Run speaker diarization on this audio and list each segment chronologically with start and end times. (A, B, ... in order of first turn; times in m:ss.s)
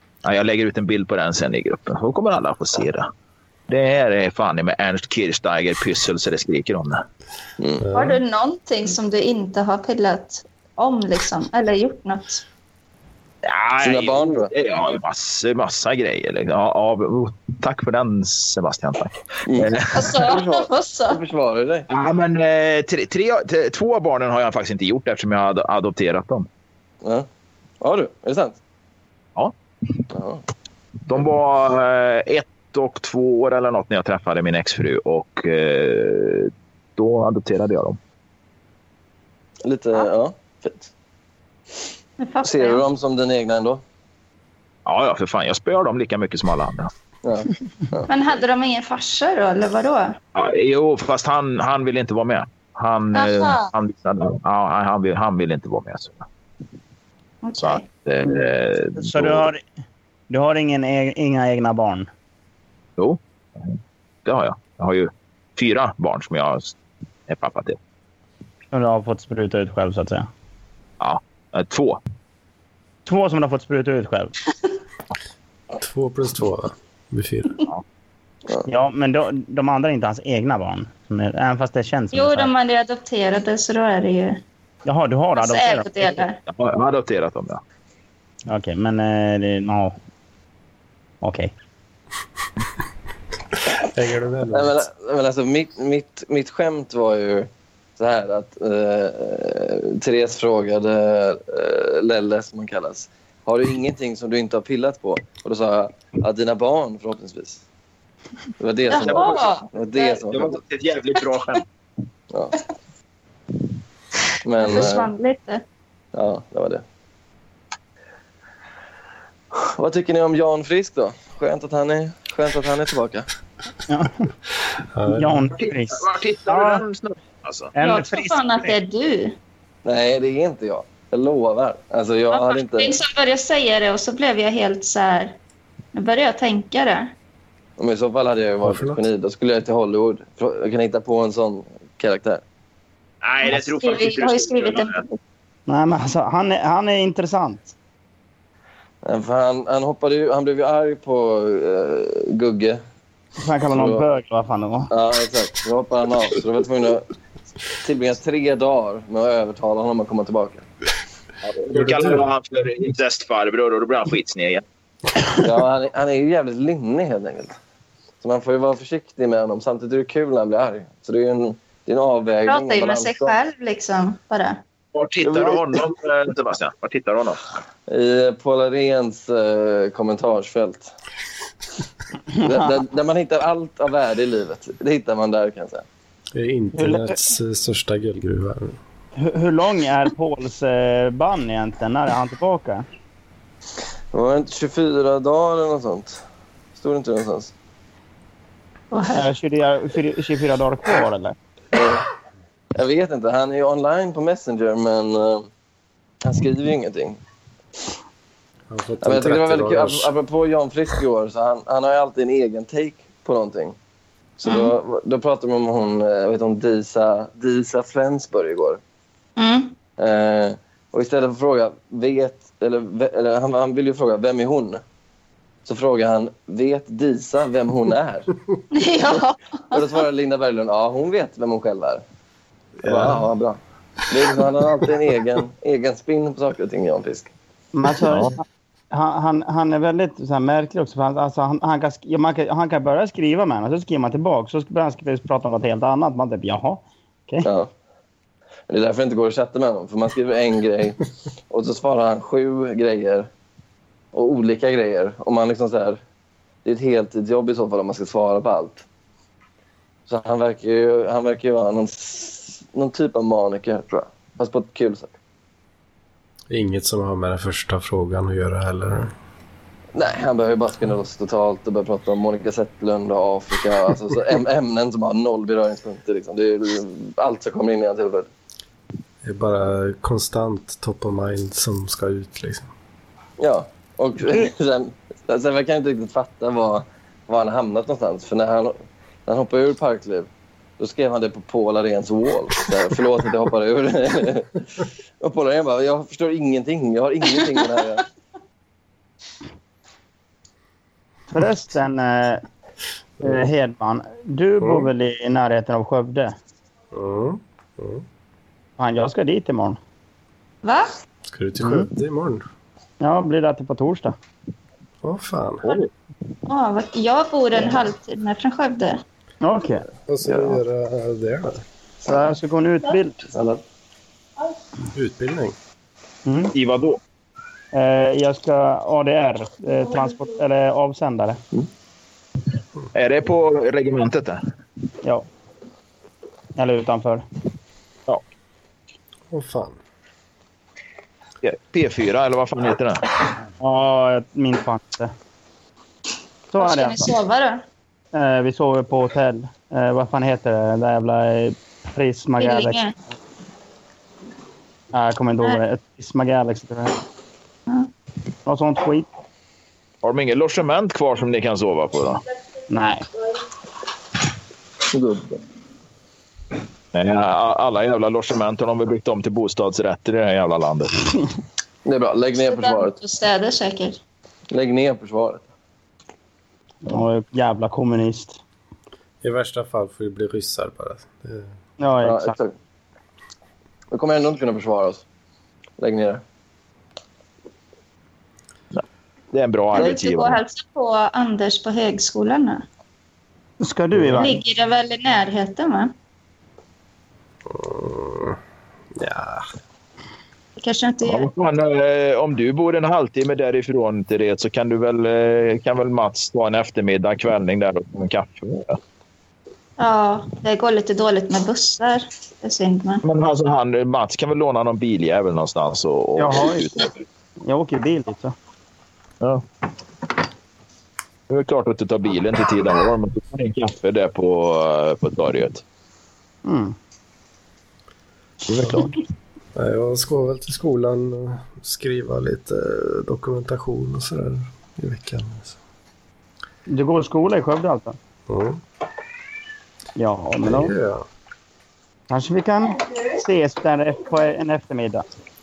0:00.2-0:03.1 A
0:03.7-0:07.0 A
0:07.6-0:07.8 B
0:07.8-0:08.2 C
0:07.9-0:12.4 D
0:13.4-0:20.2 A
0:13.8-0:14.5 B
0:19.5-0:21.9 B
0:19.9-0:21.2 D
0:21.9-0:26.5 A
0:27.8-0:28.6 B
0:29.4-0:30.0 A
0:30.1-0:30.4 B
0:31.1-0:38.0 A
0:39.6-0:40.9 B
0:42.2-0:42.8 D
0:42.4-0:43.8 B
0:44.9-0:46.9 A
0:47.2-0:48.1 B
0:48.1-0:50.2 D
0:50.4-0:56.3 A
0:53.1-0:53.7 D
0:57.4-0:57.9 D
0:57.6-0:59.5 A
0:59.0-0:59.6 E
1:00.3-1:02.1 E
1:03.0-1:06.8 A
1:07.3-1:07.8 A
1:08.7-1:10.3 E
1:11.0-1:12.0 A
1:13.1-1:14.3 E
1:15.8-1:17.6 C
1:18.6-1:22.5 E
1:22.1-1:24.4 D
1:24.9-1:26.2 E
1:25.4-1:26.4 D
1:26.5-1:27.6 A
1:28.5-1:30.0 E
1:31.2-1:31.5 E
1:33.8-1:34.8 C
1:34.5-1:47.6 B
1:48.6-1:50.6 B
1:48.9-1:50.2 D
1:49.0-1:49.4 A
1:50.3-1:51.6 A
1:52.3-1:52.6 B
1:54.4-1:55.1 B
1:54.6-1:55.6 D
1:56.1-1:56.8 B
1:59.5-2:03.3 B
2:03.9-2:04.3 E
2:04.9-2:05.5 C
2:05.1-2:06.8 E
2:05.6-2:07.7 A
2:07.7-2:08.8 E
2:07.8-2:09.4 D
2:09.8-2:13.0 B
2:12.3-2:15.4 D
2:16.0-2:17.1 D
2:17.8-2:22.4 B
2:18.6-2:19.0 C
2:23.2-2:25.0 A
2:23.4-2:25.2 D
2:25.7-2:27.7 E
2:29.0-2:32.8 B
2:33.4-2:34.9 E
2:33.7-2:34.0 B
2:34.9-2:37.1 B
2:37.7-2:40.7 B
2:41.4-2:44.6 A
2:45.4-2:47.6 B
2:48.2-2:53.4 B
2:52.5-2:54.6 D
2:54.9-2:57.4 A
2:55.2-2:55.6 B
2:57.9-3:00.9 B
3:02.3-3:02.8 E
3:02.4-3:05.9 B
3:06.4-3:08.8 C
3:06.8-3:07.2 E
3:09.2-3:12.9 E
3:14.1-3:16.2 B
3:16.8-3:17.5 B
3:18.9-3:19.3 D
3:19.2-3:21.4 E
3:21.7-3:22.1 B
3:22.8-3:25.5 B
3:26.2-3:27.2 B
3:28.7-3:30.1 C
3:29.0-3:33.8 B
3:34.4-3:38.8 B
3:34.5-3:34.7 D
3:39.4-3:39.8 D
3:40.0-3:44.8 B
3:45.7-3:48.3 B
3:48.7-3:49.8 D
3:49.7-3:52.0 B
3:52.8-3:53.2 C
3:52.8-3:57.3 B
3:57.7-4:07.5 E
3:58.1-3:58.3 A
4:07.4-4:07.7 B
4:08.7-4:13.3 B
4:14.1-4:16.0 B
4:16.6-4:18.8 B
4:20.1-4:25.1 B
4:26.5-4:29.1 C
4:29.9-4:38.3 B
4:39.2-4:42.7 C
4:43.4-4:50.3 B
4:50.8-4:58.0 B
5:01.3-5:02.4 E
5:03.2-5:06.3 E
5:04.6-5:04.9 C
5:06.9-5:08.0 C
5:08.8-5:09.8 E
5:10.6-5:10.9 D
5:11.3-5:12.4 C
5:11.6-5:11.9 E
5:13.0-5:14.2 E
5:15.0-5:15.8 C
5:16.5-5:19.0 D
5:19.4-5:19.9 E
5:20.1-5:21.6 C
5:20.2-5:20.6 B
5:22.0-5:23.2 E
5:23.3-5:23.6 B
5:24.9-5:25.6 C
5:26.3-5:26.5 E
5:26.5-5:27.0 A
5:27.7-5:31.4 E
5:32.9-5:34.4 A
5:36.6-5:37.2 E
5:39.3-5:39.8 C
5:41.4-5:43.0 A
5:43.6-5:45.1 E
5:46.5-5:47.1 E
5:46.6-5:47.6 D
5:48.1-5:52.8 E
5:52.4-5:53.0 D
5:54.9-5:57.0 E
5:58.5-5:59.1 E
6:00.0-6:02.2 A
6:02.7-6:03.1 E
6:04.9-6:05.4 B
6:06.9-6:11.2 A
6:11.8-6:13.0 B
6:12.4-6:14.0 D
6:14.5-6:15.4 B
6:16.8-6:18.4 E
6:19.2-6:21.5 C
6:21.8-6:22.4 E
6:22.0-6:22.5 B
6:23.9-6:25.0 B
6:25.8-6:26.2 B
6:28.7-6:30.4 A
6:29.7-6:32.6 D
6:33.6-6:34.4 E
6:33.9-6:34.2 C
6:34.1-6:35.9 D
6:37.5-6:38.4 C
6:39.0-6:39.5 C
6:40.6-6:41.3 D
6:41.0-6:48.8 A
6:49.8-6:53.0 D
6:53.0-6:57.0 A
6:56.2-6:56.7 E
6:57.4-6:58.4 E
7:01.3-7:05.6 A
7:06.4-7:06.8 E
7:08.5-7:08.9 A
7:08.6-7:08.9 E
7:09.6-7:15.6 C
7:16.7-7:18.0 E
7:18.3-7:18.6 C
7:20.0-7:20.7 E
7:20.4-7:21.0 C
7:22.1-7:25.0 E